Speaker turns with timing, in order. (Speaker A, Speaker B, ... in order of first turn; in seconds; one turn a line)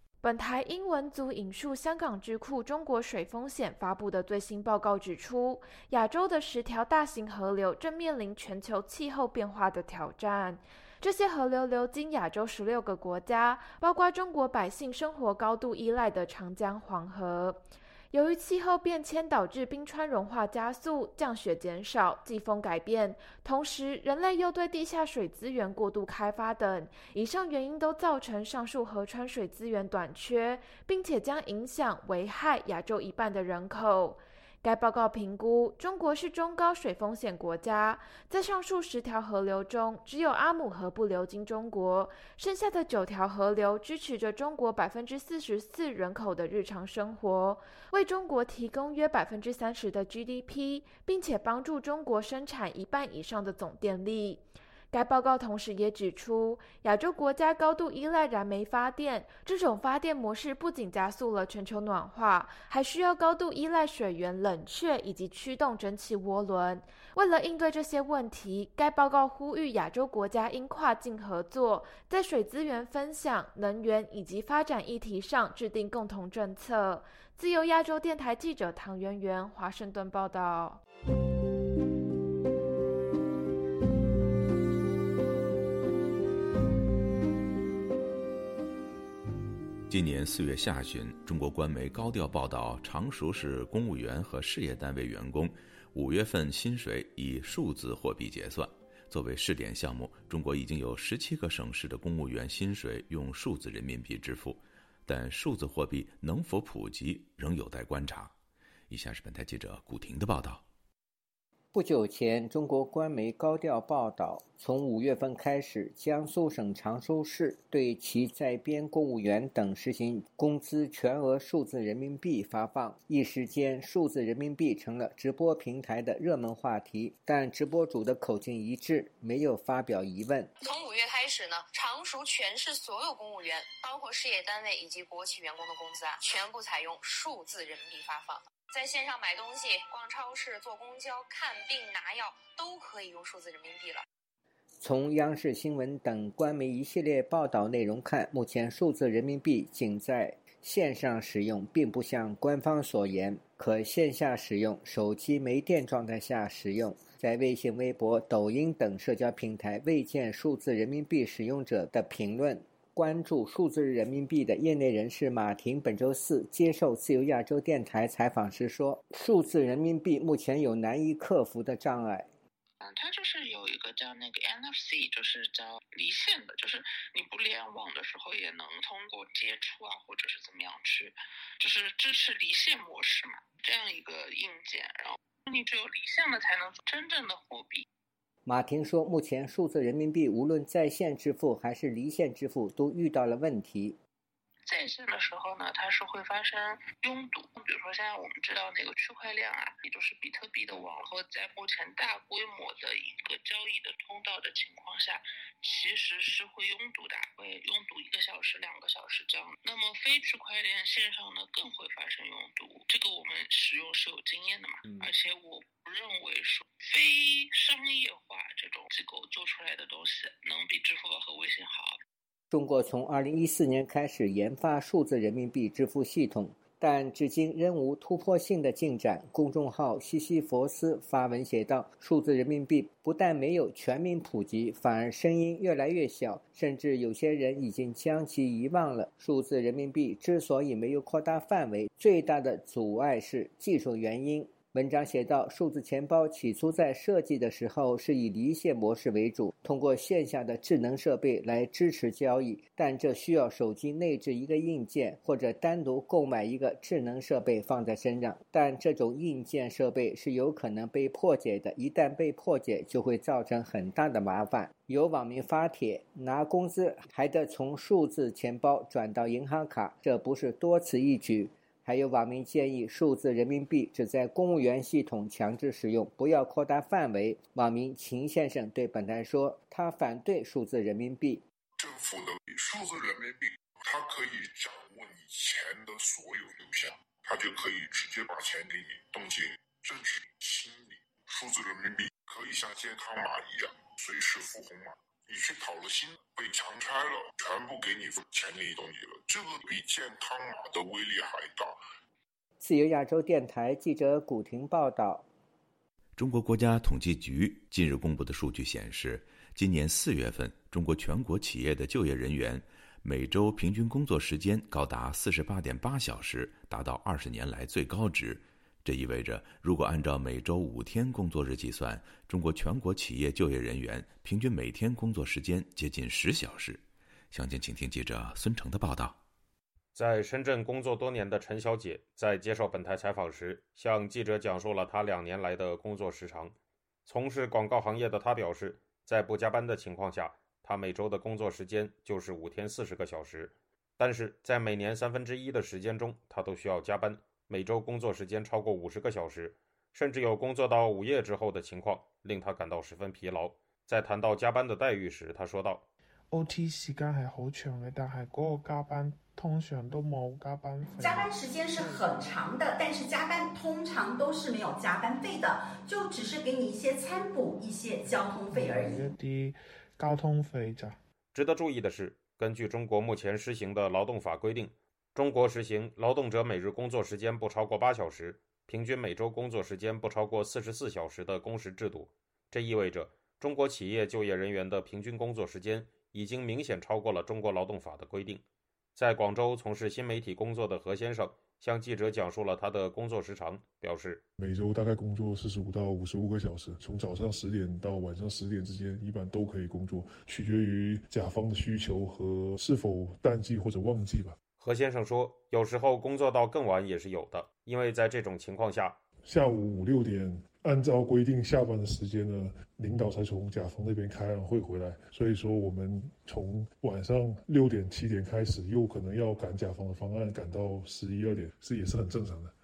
Speaker A: 0.2-80.8
Speaker B: 89.9-108.3
Speaker B: 108.9-110.6
Speaker C: 111.7-130.5
Speaker D: 130.6-144.0
Speaker C: 144.8-172.3
Speaker E: 172.8-187.8
Speaker C: 188.5-194.0
Speaker E: 194.7-222.0
Speaker C: 222.5-281.4
Speaker F: 281.8-301.8
Speaker C: 302.6-305.2
Speaker B: 306.2-329.2
Speaker G: 329.9-336.5
Speaker G: 337.1-355.8
Speaker H: 356.3-360.9
Speaker I: 361.0-369.0
Speaker H: 369.0-370.9
Speaker G: 371.3-388.4
Speaker G: 389.0-394.2
Speaker J: 394.4-404.4
Speaker G: 404.6-409.0
Speaker J: 409.2-422.5